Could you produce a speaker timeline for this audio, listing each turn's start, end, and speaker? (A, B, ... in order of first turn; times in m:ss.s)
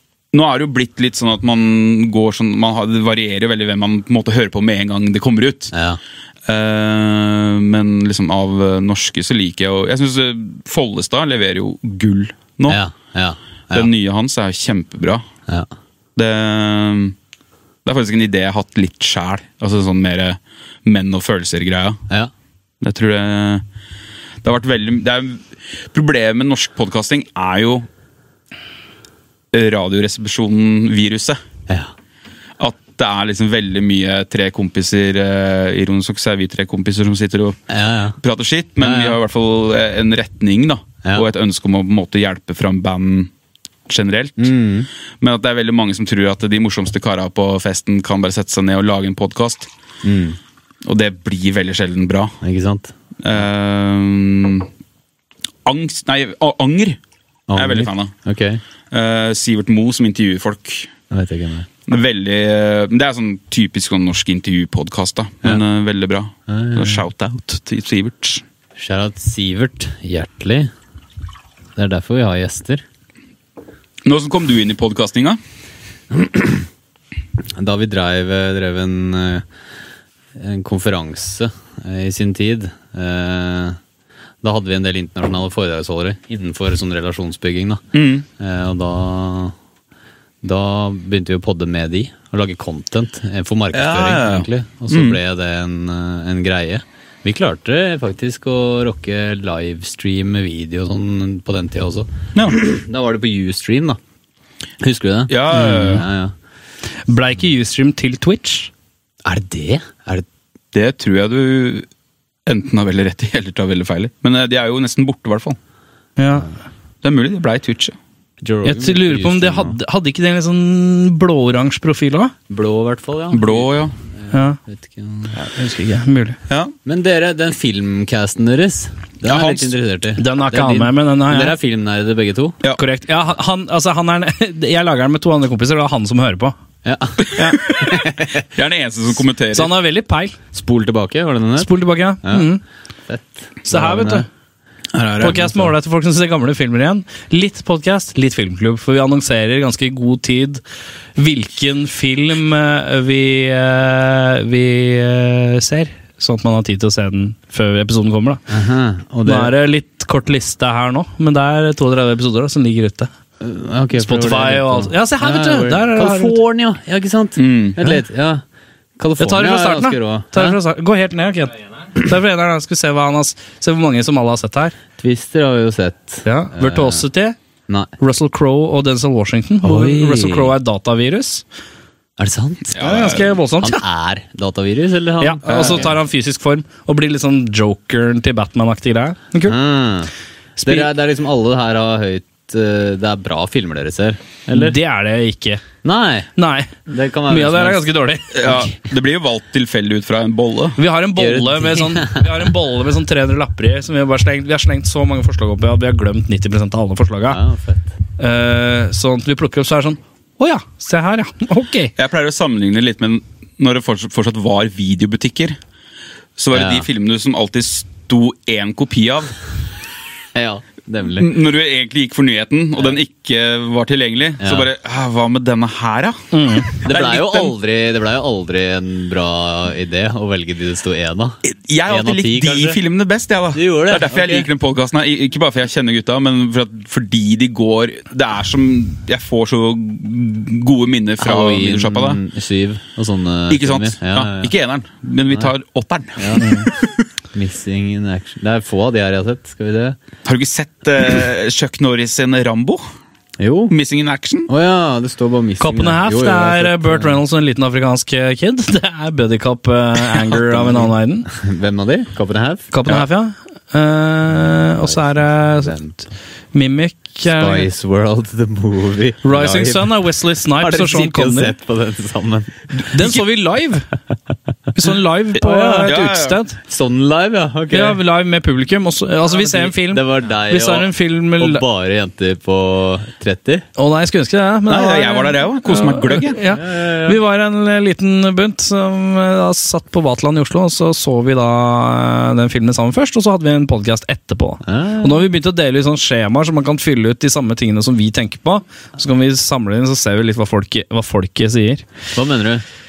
0:00.3-0:05.7 A
0:05.7-0:06.0 B
0:06.4-0:12.8 A
0:12.7-0:13.9 B
0:13.7-0:15.2 A
0:16.2-0:17.2 A
0:17.8-0:22.0 A
0:22.8-0:23.6 A
0:24.4-0:27.9 A
0:29.5-0:31.4 A
0:32.6-0:37.6 A
0:37.7-0:38.2 B
0:38.2-0:43.3 A
0:38.8-0:39.2 B
0:43.9-0:44.5 A
0:44.4-0:44.9 B
0:45.2-0:49.7 A
0:50.0-0:50.4 B
0:50.8-0:52.3 A
0:52.4-0:52.9 B
0:53.2-0:54.7 A
0:55.6-0:57.0 A
0:57.5-0:58.6 B
0:57.5-0:58.1 A
0:58.9-1:00.9 A
1:01.1-1:01.7 B
1:01.9-1:08.4 A
1:06.5-1:07.0 B
1:08.8-1:10.7 B
1:11.8-1:12.8 B
1:14.0-1:15.4 A
1:16.1-1:16.7 B
1:17.5-1:19.4 B
1:20.4-1:23.8 B
1:24.4-1:27.9 B
1:27.9-1:28.2 A
1:28.4-1:29.5 B
1:30.4-1:44.0 B
1:33.7-1:35.2 A
1:44.8-1:46.3 B
1:45.3-1:46.0 A
1:47.1-1:48.7 C
1:49.2-1:50.2 B
1:50.7-1:51.9 A
1:52.4-1:55.6 A
1:56.2-1:56.5 C
1:57.0-1:58.0 A
1:58.4-1:59.8 B
1:58.6-2:02.3 C
2:02.5-2:05.3 B
2:03.3-2:03.9 A
2:04.3-2:04.6 C
2:05.3-2:06.4 C
2:06.5-2:06.7 A
2:06.8-2:12.6 B
2:09.2-2:09.7 A
2:10.2-2:11.5 C
2:12.8-2:16.5 C
2:16.8-2:18.4 B
2:17.3-2:17.6 C
2:17.4-2:18.0 A
2:18.5-2:19.7 A
2:19.5-2:20.4 C
2:20.5-2:21.7 B
2:21.6-2:22.6 C
2:22.2-2:22.5 B
2:23.1-2:24.2 B
2:23.7-2:24.2 C
2:24.9-2:25.5 A
2:25.2-2:30.6 C
2:31.2-2:38.4 C
2:38.5-2:39.5 B
2:39.2-2:43.1 C
2:43.4-2:48.4 B
2:44.0-2:46.4 C
2:47.4-2:47.8 A
2:49.0-2:50.6 B
2:49.2-2:54.8 C
2:55.0-2:57.0 B
2:56.2-2:57.4 C
2:58.0-3:01.4 C
2:59.6-3:00.5 B
3:02.2-3:05.9 B
3:02.7-3:03.3 A
3:02.8-3:03.8 C
3:05.2-3:09.6 C
3:05.4-3:05.9 A
3:09.5-3:10.1 B
3:10.6-3:10.9 C
3:10.6-3:14.8 B
3:14.5-3:15.6 C
3:15.8-3:16.3 B
3:16.4-3:18.6 C
3:16.9-3:17.9 B
3:18.3-3:20.8 A
3:20.8-3:27.4 C
3:21.2-3:22.5 B
3:27.3-3:27.9 B
3:28.2-3:31.9 C
3:32.0-3:35.6 A
3:36.4-3:39.3 A
3:36.5-3:36.8 B
3:40.3-3:41.3 B
3:41.2-3:47.5 A
3:44.4-3:44.7 B
3:46.3-3:46.7 C
3:46.8-3:52.8 B
3:51.4-4:02.2 A
3:53.5-3:54.5 B
4:01.2-4:04.5 B
4:03.5-4:07.0 A
4:06.2-4:06.7 B
4:07.3-4:10.0 B
4:10.2-4:12.8 A
4:13.4-4:13.7 B
4:13.7-4:14.5 A
4:14.5-4:17.2 B
4:15.6-4:21.3 C
4:20.3-4:22.7 B
4:22.7-4:25.8 C
4:24.8-4:26.1 B
4:26.5-4:27.7 C
4:27.3-4:30.0 B
4:29.2-4:31.5 C
4:30.6-4:32.5 B
4:32.9-4:33.9 C
4:32.9-4:33.2 A
4:34.7-4:36.6 C
4:35.4-4:35.9 B
4:35.8-4:36.4 A
4:36.7-4:38.0 B
4:37.7-4:41.6 C
4:39.2-4:43.6 B
4:43.8-5:01.8 C
4:44.7-4:46.4 A
4:46.4-4:47.2 B
4:54.6-4:55.3 B
5:02.1-5:02.6 B